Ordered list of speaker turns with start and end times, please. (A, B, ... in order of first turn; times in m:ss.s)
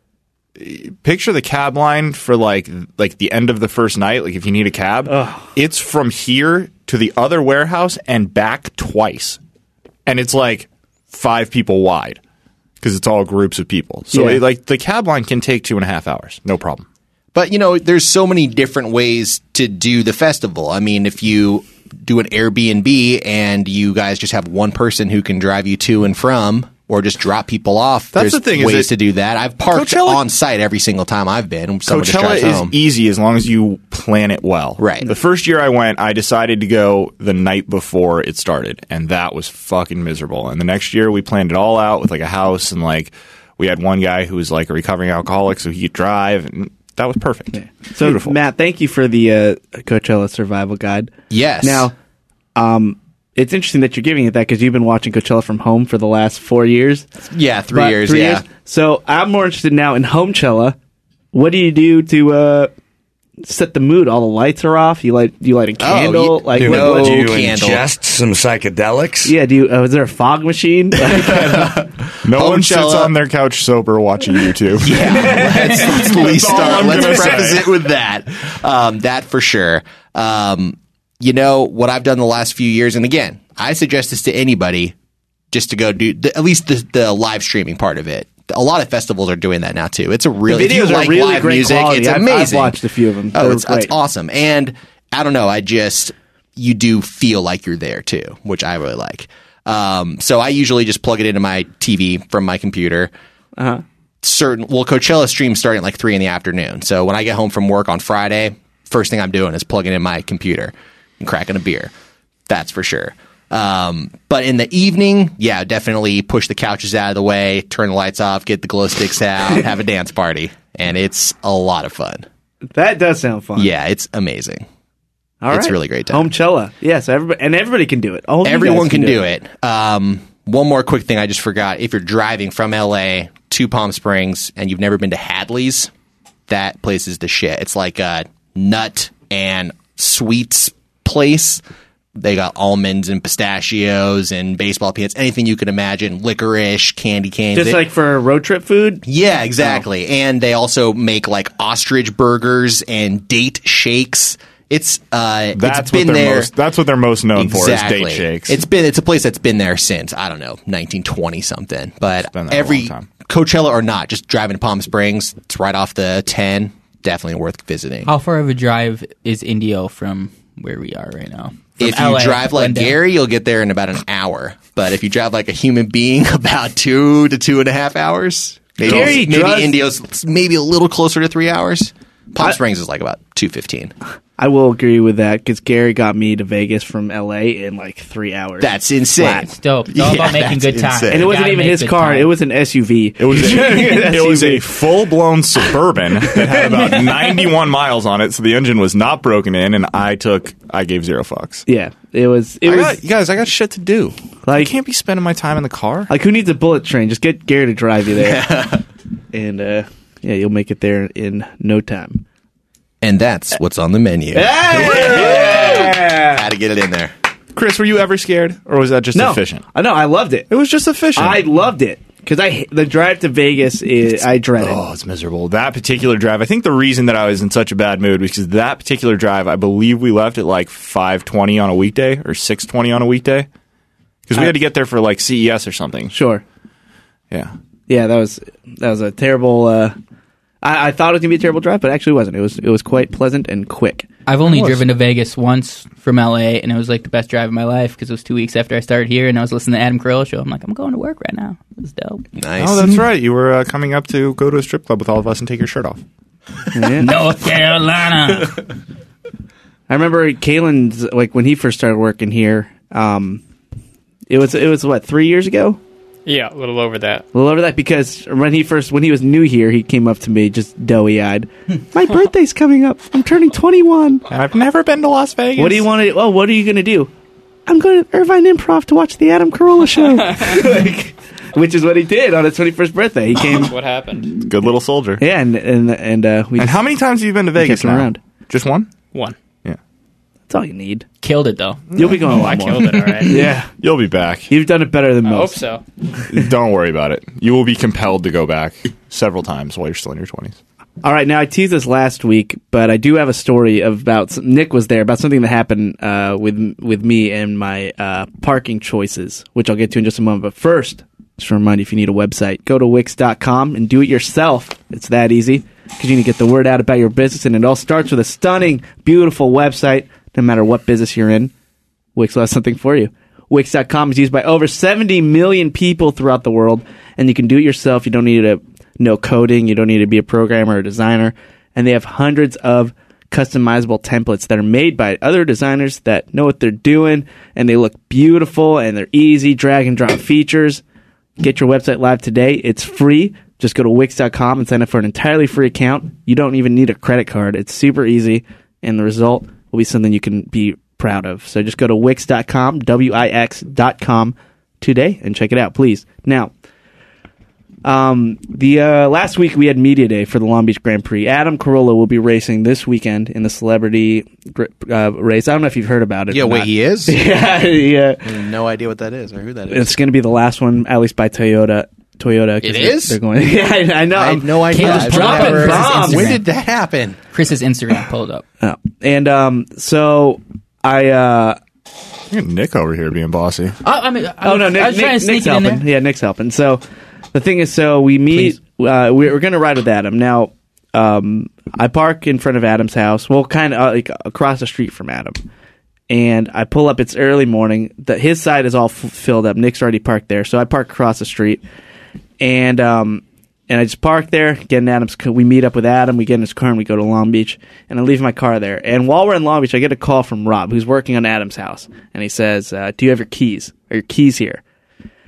0:00.6-0:09.4 A
0:05.1-0:05.4 B
0:10.1-0:12.2 A
0:12.8-0:16.8 A
0:14.1-0:14.4 B
0:17.3-0:32.7 C
0:28.1-0:28.9 A
0:29.7-0:30.2 A
0:31.9-0:48.3 A
0:34.8-0:35.1 C
0:47.7-0:51.9 B
0:51.3-0:51.9 C
0:52.6-0:57.1 B
0:57.3-0:58.4 C
0:57.7-1:00.8 B
1:01.3-1:02.7 B
1:03.4-1:07.3 B
1:05.8-1:07.9 C
1:06.6-1:09.3 D
1:09.2-1:11.8 B
1:11.0-1:13.1 C
1:12.2-1:17.7 A
1:14.8-1:25.0 C
1:25.5-1:32.8 C
1:30.5-1:33.9 B
1:33.3-1:43.1 C
1:43.6-1:43.8 B
1:44.2-1:51.9 C
1:52.5-2:02.3 C
2:02.7-2:03.7 B
2:03.6-2:04.7 C
2:05.4-2:09.2 B
2:05.5-2:06.3 C
2:08.4-2:15.9 C
2:16.5-2:21.6 C
2:22.2-2:27.8 C
2:27.5-2:29.0 B
2:29.1-2:36.5 C
2:35.5-2:38.6 A
2:37.4-2:48.1 C
2:42.3-2:43.1 A
2:48.1-2:53.0 E
2:51.8-3:03.9 C
2:58.8-2:59.8 B
3:04.4-3:08.7 B
3:08.6-3:11.3 C
3:09.2-3:12.3 E
3:11.1-3:14.6 B
3:13.2-3:21.6 A
3:16.3-3:16.9 B
3:21.7-3:23.0 B
3:22.6-3:26.1 A
3:24.5-3:24.7 B
3:26.1-3:28.6 B
3:28.2-3:28.8 C
3:29.3-3:32.2 B
3:33.0-3:37.1 C
3:34.3-3:36.4 B
3:37.6-3:39.6 A
3:39.1-3:40.5 B
3:40.5-3:41.4 A
3:41.2-3:44.8 B
3:44.6-3:53.5 A
3:54.3-3:56.2 A
3:56.1-3:56.4 B
3:57.9-4:00.0 B
4:00.6-4:04.1 B
4:04.3-4:12.2 E
4:04.5-4:04.8 A
4:12.4-4:12.9 C
4:12.6-4:16.0 A
4:16.8-4:17.1 B
4:17.0-4:18.6 E
4:19.9-4:23.4 B
4:24.3-4:25.8 B
4:26.3-4:27.2 F
4:27.3-4:34.2 B
4:34.3-4:35.8 A
4:35.6-4:37.1 B
4:37.7-4:43.7 B
4:40.2-4:40.5 F
4:43.5-4:44.4 F
4:44.3-4:45.2 A
4:45.2-4:46.8 B
4:46.6-4:48.9 A
4:47.6-4:48.2 B
4:50.5-4:51.1 B
4:51.2-4:51.8 E
4:51.9-4:52.3 A
4:52.0-4:53.7 B
4:52.2-4:53.4 F
4:53.8-4:54.5 A
4:54.5-4:55.6 B
4:55.2-4:55.8 F
4:56.3-5:00.6 A
5:01.0-5:21.5 B
5:22.2-5:40.8 B
5:41.4-5:56.5 B
5:57.8-6:08.3 B
6:06.3-6:07.2 C
6:08.2-6:09.9 C
6:09.7-6:16.4 B
6:12.6-6:13.2 C
6:14.1-6:17.2 C
6:14.7-6:16.4 E
6:17.3-6:18.4 E
6:18.6-6:21.6 B
6:22.3-6:23.8 A
6:23.8-6:25.8 E
6:24.4-6:26.8 B
6:27.3-6:35.4 B
6:36.1-6:41.6 B
6:42.4-6:54.6 B